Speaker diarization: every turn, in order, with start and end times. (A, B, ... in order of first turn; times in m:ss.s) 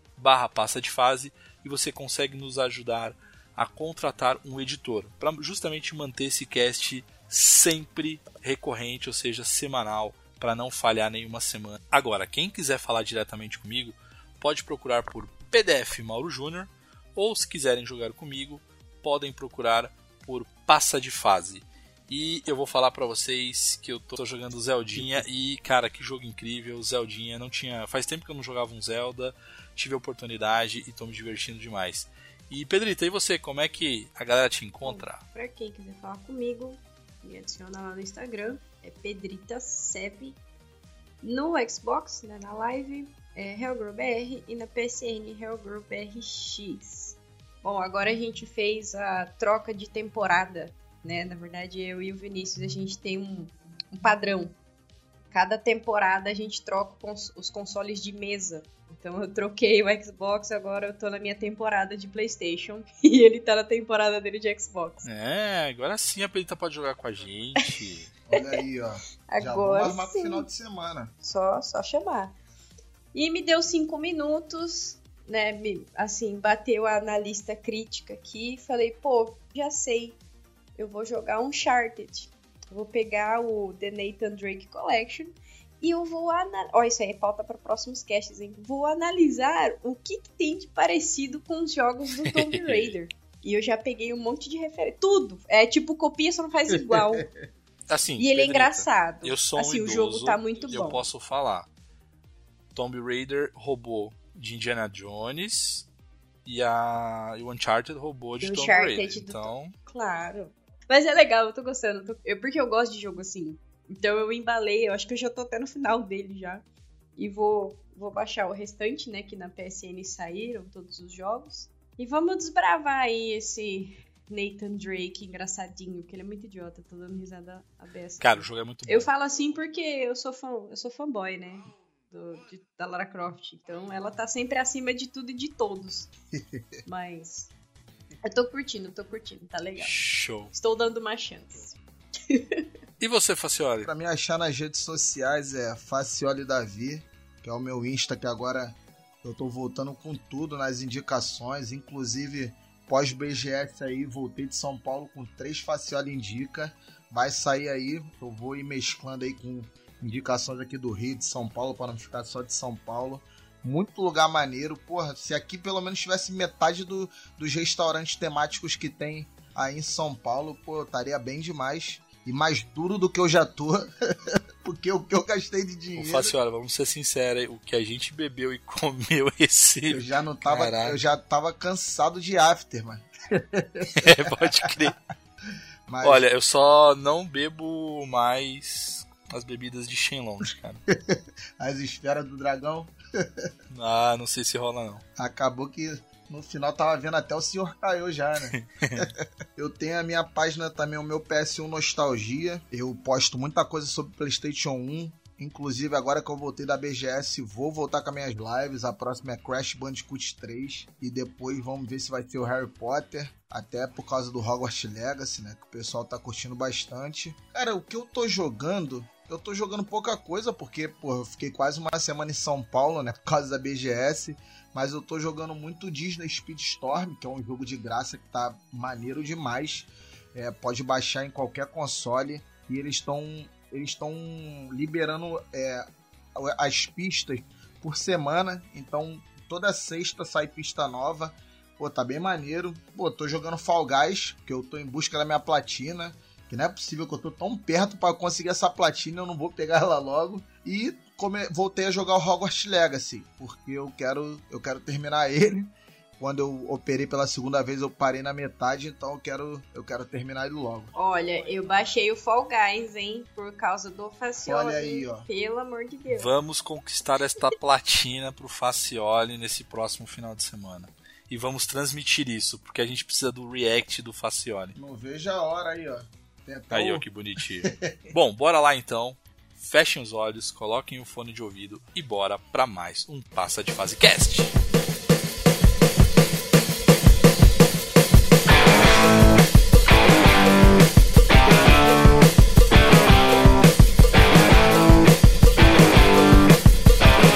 0:00.2-0:35.2 A
0:34.8-0:40.4 B
0:41.2-0:54.6 B
0:55.3-1:05.0 B
1:05.0-1:08.1 A
1:08.3-1:11.1 C
1:09.3-1:10.5 B
1:11.2-1:12.4 B
1:13.1-1:20.2 B
1:20.8-1:37.2 B
1:32.2-1:32.9 A
1:36.7-1:37.3 C
1:37.9-1:41.7 A
1:38.2-1:41.0 B
1:42.7-1:45.9 A
1:46.4-1:49.7 A
1:48.4-1:56.6 B
1:57.2-2:16.1 B
2:08.2-2:09.1 A
2:16.3-2:16.7 C
2:16.8-2:17.5 B
2:18.2-2:20.0 B
2:19.8-2:20.5 A
2:20.5-2:21.8 B
2:22.3-2:22.6 B
2:23.0-2:23.9 A
2:23.8-2:56.3 C
2:56.0-3:01.0 A
2:59.9-3:04.7 C
3:03.9-3:05.0 A
3:05.9-3:06.2 C
3:06.0-3:10.8 A
3:10.9-3:13.5 C
3:13.7-3:15.0 A
3:15.2-4:20.9 C
3:18.5-3:19.1 A
4:20.9-4:26.3 B
4:24.4-4:25.3 C
4:26.1-4:34.8 A
4:34.8-4:37.0 C
4:36.7-4:44.5 A
4:37.6-4:38.1 C